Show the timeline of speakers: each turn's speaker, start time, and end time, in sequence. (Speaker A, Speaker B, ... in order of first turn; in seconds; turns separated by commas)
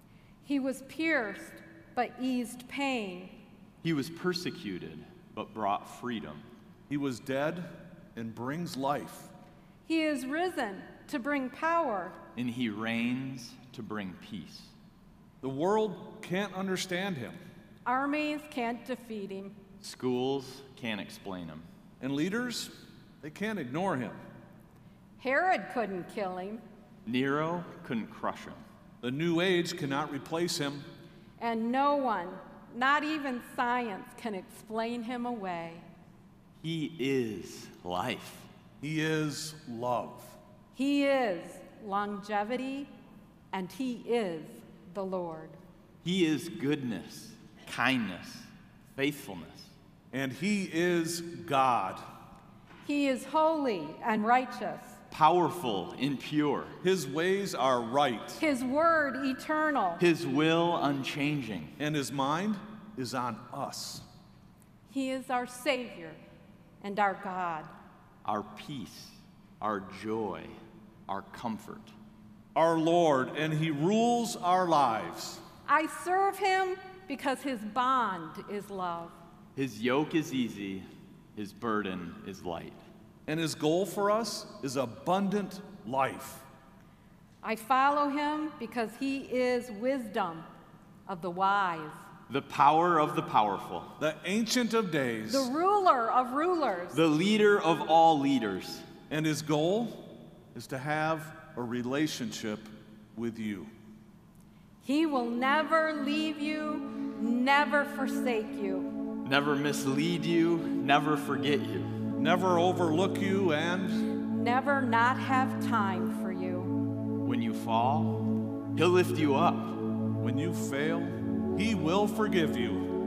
Speaker A: 0.4-3.4, Speaker B: 3.8-6.4, Speaker C: 6.9-9.3, Speaker A: 9.8-12.2, Speaker B: 12.3-14.7, Speaker C: 15.4-17.4, Speaker A: 17.8-19.6, Speaker B: 19.8-21.6, Speaker C: 22.0-24.2, Speaker A: 25.2-26.6, Speaker B: 27.1-28.6, Speaker C: 29.0-30.9, Speaker A: 31.4-35.9, Speaker B: 36.6-38.5, Speaker C: 38.8-40.4, Speaker A: 40.7-42.9, Speaker A: 43.5-45.6, Speaker B: 46.0-49.7, Speaker C: 50.1-52.0, Speaker A: 52.8-55.0, Speaker B: 55.1-56.7, Speaker C: 56.8-58.4, Speaker A: 58.4-60.0, Speaker B: 60.0-61.7, Speaker C: 61.8-64.0, Speaker A: 64.9-66.2, Speaker A: 66.8-67.7, Speaker B: 68.2-71.9, Speaker C: 72.5-75.4, Speaker A: 75.7-79.2, Speaker B: 79.5-82.8, Speaker C: 83.3-86.5, Speaker A: 87.4-90.5, Speaker A: 91.1-92.0, Speaker B: 92.3-93.9, Speaker C: 94.0-95.5, Speaker A: 95.3-97.0, Speaker B: 96.9-98.8, Speaker C: 99.1-103.7, Speaker A: 104.8-108.9, Speaker B: 109.2-112.0, Speaker C: 112.1-114.0, Speaker A: 114.3-116.7, Speaker B: 117.2-119.8, Speaker C: 120.2-122.9